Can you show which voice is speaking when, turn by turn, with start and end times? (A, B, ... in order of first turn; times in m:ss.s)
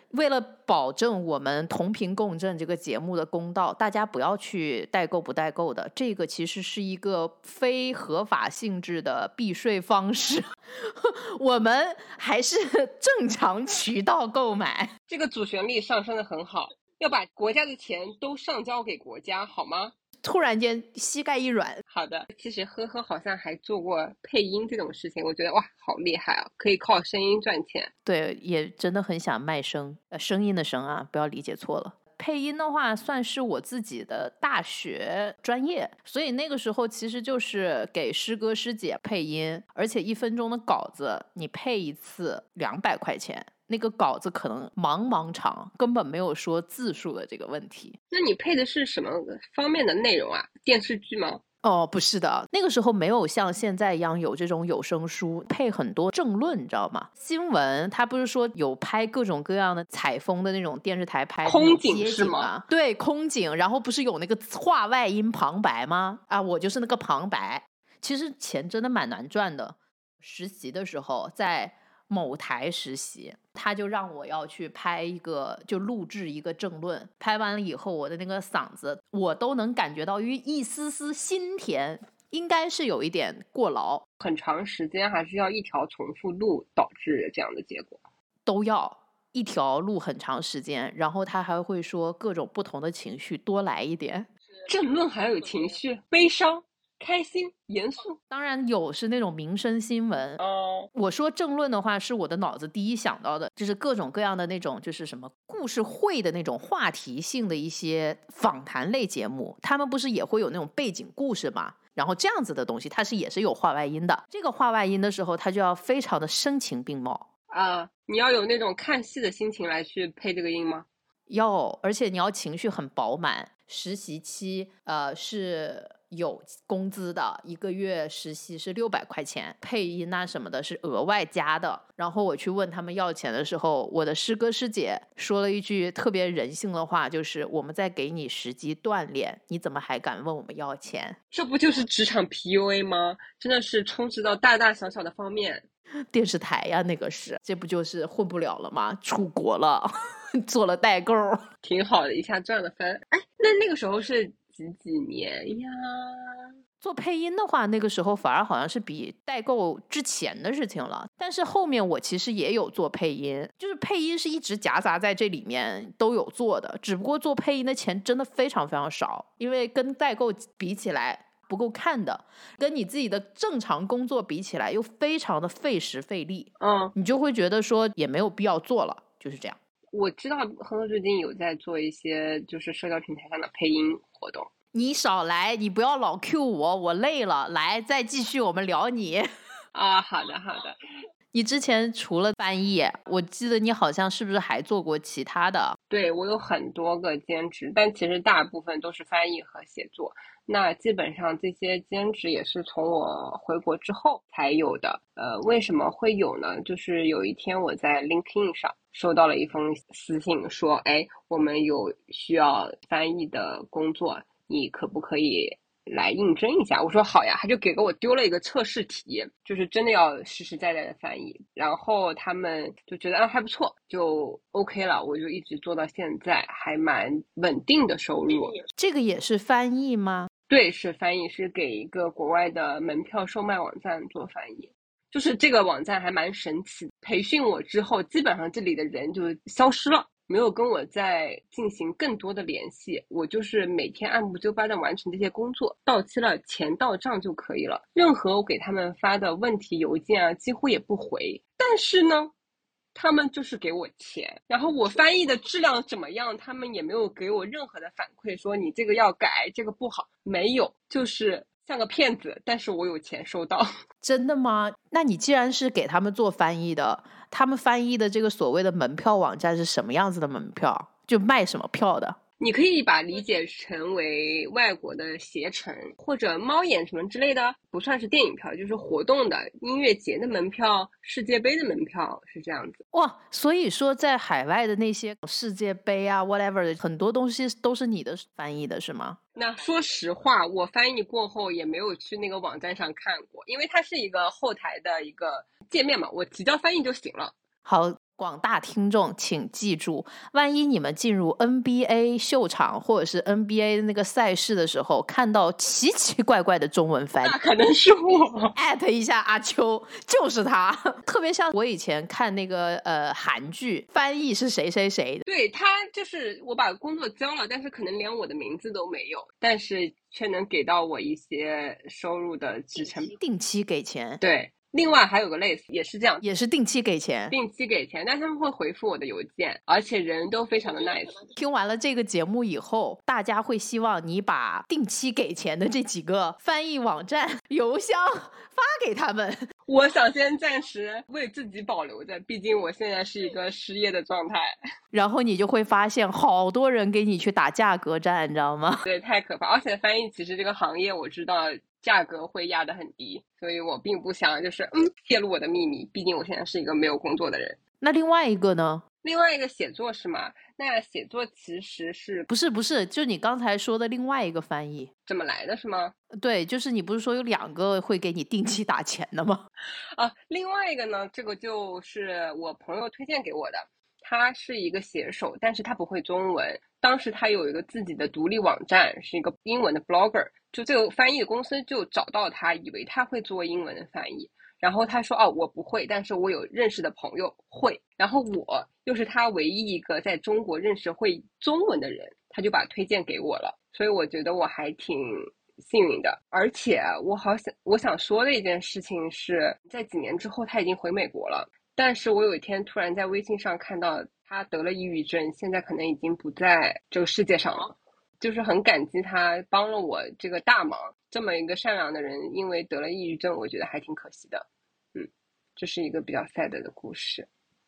0:00.1-0:14.9 A
0:15.1-0:19.9 B
0:20.2-0:21.8 A
0:21.9-0:27.9 B
0:28.1-0:48.0 A
0:48.1-0:51.4 B
0:51.6-1:24.0 A
1:01.4-1:02.5 B
1:24.2-1:28.0 B
1:28.5-1:34.3 A
1:34.7-1:38.2 B
1:38.3-1:40.4 A
1:40.4-1:40.9 B
1:40.9-1:57.3 A
1:57.5-2:00.9 B
2:01.3-2:21.2 A
2:21.3-2:25.6 B
2:26.1-2:31.4 A
2:31.6-2:36.5 B
2:36.8-2:59.6 A
2:56.6-2:56.9 B
2:59.9-3:04.5 B
3:04.7-3:09.3 A
3:09.7-3:10.8 B
3:11.3-3:15.8 A
3:15.9-3:48.6 B
3:48.8-3:50.3 A
3:50.5-4:12.3 B
4:13.0-4:23.7 B
4:24.0-4:32.2 A
4:32.4-4:42.8 B
4:42.9-4:49.2 A
4:49.4-4:57.3 B
4:57.6-5:07.4 A
5:07.2-5:08.5 B
5:08.6-5:15.2 A
5:15.3-5:23.2 B
5:23.2-5:24.2 A
5:24.2-5:26.2 B
5:26.2-5:27.4 A
5:27.3-5:31.3 B
5:31.4-5:39.4 A
5:39.7-5:44.5 B
5:44.9-5:48.8 A
5:48.8-5:57.6 B
5:57.8-5:58.8 A
5:59.0-6:02.3 B
6:02.3-6:04.9 A
6:05.1-6:05.9 B
6:06.2-6:09.5 A
6:10.0-6:57.3 B